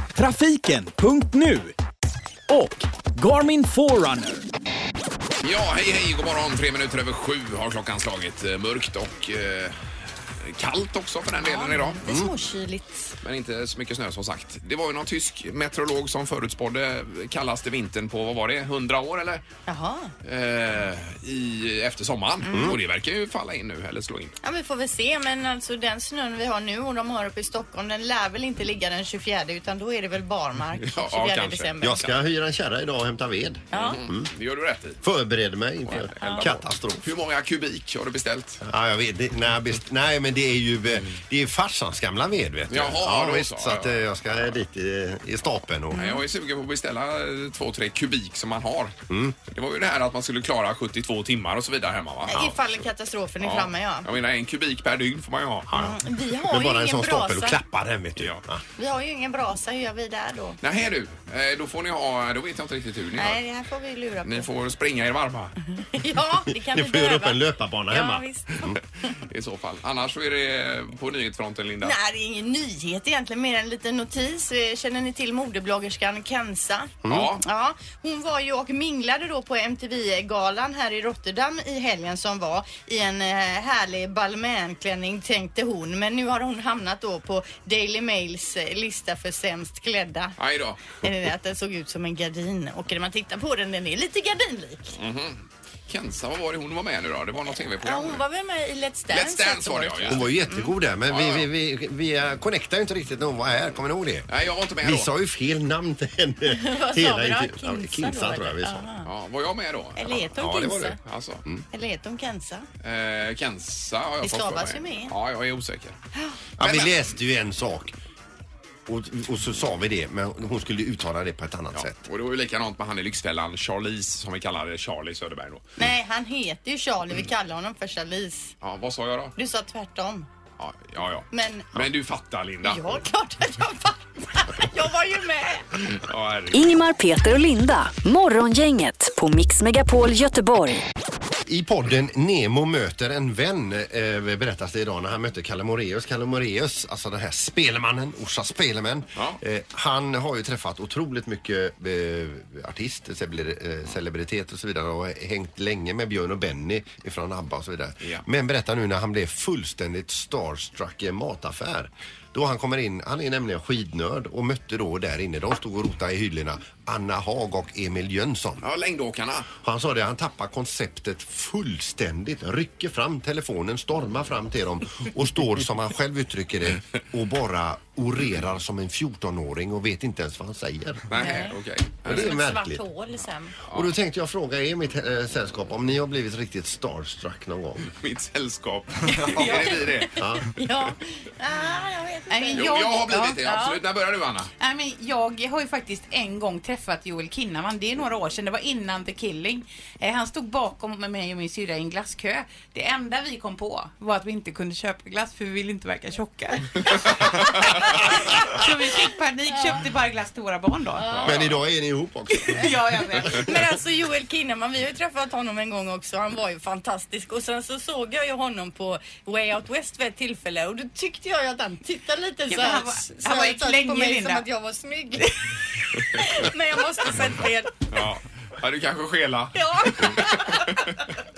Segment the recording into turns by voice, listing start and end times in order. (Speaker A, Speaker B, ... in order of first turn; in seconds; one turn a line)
Speaker A: 0.1-1.8
Speaker A: 2.5-4.4
Speaker B: 5.4-12.0
Speaker C: 11.4-13.2
Speaker D: 12.1-12.3
Speaker B: 13.2-19.4
Speaker C: 19.7-20.1
Speaker B: 20.2-24.3
Speaker C: 22.4-22.7
Speaker D: 22.5-22.8
Speaker C: 24.4-32.0
Speaker B: 30.8-32.1
Speaker D: 31.8-34.3
Speaker B: 33.7-35.0
Speaker C: 33.7-34.0
Speaker D: 35.0-37.1
Speaker B: 35.8-38.6
Speaker C: 35.9-36.5
Speaker D: 38.6-46.1
Speaker B: 42.7-44.4
Speaker B: 45.9-49.0
Speaker C: 46.0-46.2
Speaker D: 49.1-49.4
Speaker B: 49.5-52.4
Speaker C: 52.3-54.1
Speaker D: 52.3-52.5
Speaker B: 53.4-55.7
Speaker D: 55.7-58.6
Speaker C: 55.7-57.6
Speaker C: 58.8-60.6
Speaker B: 60.6-63.4
Speaker C: 63.2-64.5
Speaker B: 64.2-65.5
Speaker C: 65.8-68.6
Speaker D: 66.6-68.8
Speaker B: 69.3-72.0
Speaker C: 71.8-90.3
Speaker D: 77.0-77.3
Speaker B: 77.1-77.4
Speaker B: 90.4-91.0
Speaker C: 90.9-95.0
Speaker B: 95.0-98.2
Speaker C: 97.8-100.7
Speaker B: 99.1-100.3
Speaker D: 100.1-104.3
Speaker B: 101.1-101.5
Speaker B: 104.3-105.1
Speaker D: 104.8-108.9
Speaker C: 106.5-109.1
Speaker B: 109.0-110.2
Speaker C: 110.0-111.0
Speaker D: 110.3-111.6
Speaker B: 111.0-111.4
Speaker C: 111.7-112.7
Speaker B: 112.8-116.0
Speaker C: 114.2-115.1
Speaker C: 116.1-116.9
Speaker D: 116.6-117.9
Speaker D: 118.9-122.0
Speaker B: 121.7-125.7
Speaker C: 125.8-128.5
Speaker B: 128.6-129.3
Speaker C: 129.4-130.3
Speaker B: 130.6-133.0
Speaker C: 131.3-131.7
Speaker C: 132.6-135.8
Speaker B: 135.9-136.8
Speaker E: 136.5-140.8
Speaker D: 141.4-168.7
Speaker B: 168.6-169.5
Speaker D: 169.6-181.2
Speaker B: 181.1-182.3
Speaker C: 181.2-181.5
Speaker D: 182.0-182.8
Speaker C: 182.1-183.6
Speaker D: 183.7-187.9
Speaker B: 187.9-190.2
Speaker F: 189.1-189.9
Speaker D: 190.2-190.5
Speaker C: 190.3-192.8
Speaker F: 192.3-193.7
Speaker B: 192.5-194.5
Speaker F: 194.6-211.2
Speaker B: 211.0-211.6
Speaker D: 211.2-213.3
Speaker F: 212.3-213.5
Speaker C: 213.3-227.7
Speaker F: 222.5-224.4
Speaker B: 227.9-230.9
Speaker C: 229.5-230.8